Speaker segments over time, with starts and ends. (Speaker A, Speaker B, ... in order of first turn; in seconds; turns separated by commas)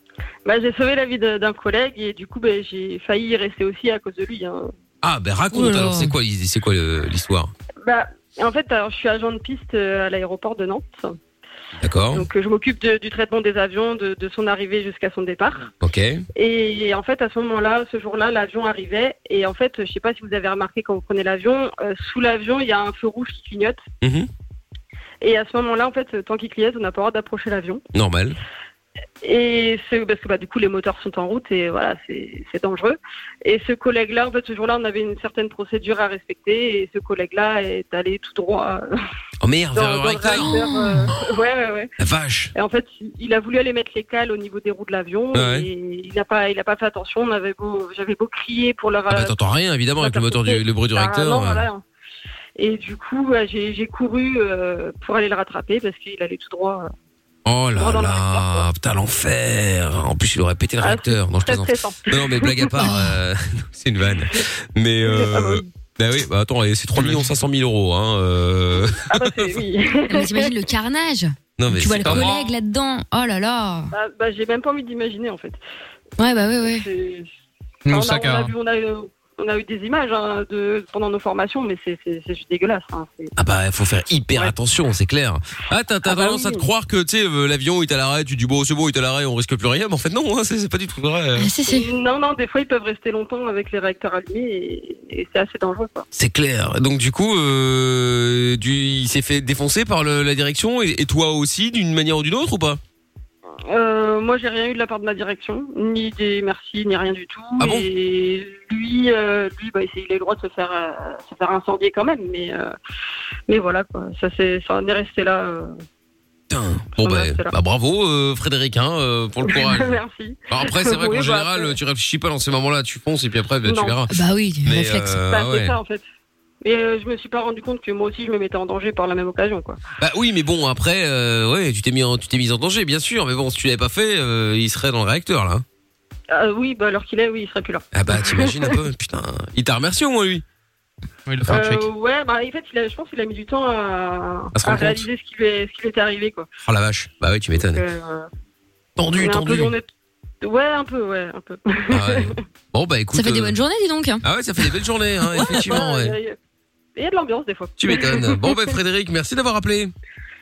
Speaker A: 0.4-4.7, Speaker B: 5.0-7.5, Speaker C: 5.5-6.1, Speaker A: 7.8-11.1, Speaker B: 11.8-12.3, Speaker A: 12.1-15.7, Speaker B: 15.8-16.2, Speaker A: 16.3-23.8, Speaker B: 24.0-24.3, Speaker A: 25.2-27.8, Speaker B: 27.9-28.4, Speaker A: 29.2-38.9, Speaker B: 39.4-41.1, Speaker A: 39.7-41.9, Speaker C: 40.3-41.1, Speaker B: 42.0-42.5, Speaker A: 42.5-49.4, Speaker B: 45.3-45.7, Speaker B: 49.1-51.7, Speaker A: 50.0-51.8, Speaker A: 52.6-56.9, Speaker B: 57.4-69.6, Speaker A: 57.8-58.6, Speaker A: 60.8-62.6, Speaker C: 62.8-63.2, Speaker A: 65.0-65.6, Speaker D: 67.0-67.2, Speaker A: 69.1-70.5, Speaker C: 70.1-73.9, Speaker B: 71.6-72.3, Speaker D: 72.0-72.5, Speaker A: 73.9-75.6, Speaker C: 76.2-76.8, Speaker A: 76.7-77.3, Speaker D: 77.8-78.5, Speaker A: 77.9-83.3, Speaker B: 83.3-91.5, Speaker A: 86.0-86.7, Speaker C: 91.4-91.9, Speaker A: 91.6-96.0, Speaker B: 96.1-102.8, Speaker A: 103.7-112.7, Speaker B: 107.6-107.9, Speaker A: 113.5-115.7, Speaker B: 116.5-124.1, Speaker A: 117.0-117.5, Speaker A: 119.5-121.8, Speaker A: 123.6-124.0, Speaker C: 124.1-125.2, Speaker B: 124.6-125.8, Speaker A: 125.3-126.0, Speaker A: 126.6-129.8, Speaker B: 130.0-135.6, Speaker A: 136.3-138.7, Speaker B: 137.9-140.4, Speaker D: 141.3-141.9, Speaker A: 141.4-146.5, Speaker B: 144.5-145.1, Speaker B: 146.6-147.8, Speaker A: 147.6-148.3, Speaker B: 149.0-149.7, Speaker A: 149.1-149.9, Speaker A: 150.4-152.4, Speaker B: 151.9-153.5, Speaker C: 153.1-154.2, Speaker B: 154.2-156.2, Speaker A: 155.3-156.3, Speaker A: 156.9-158.7, Speaker B: 157.8-159.9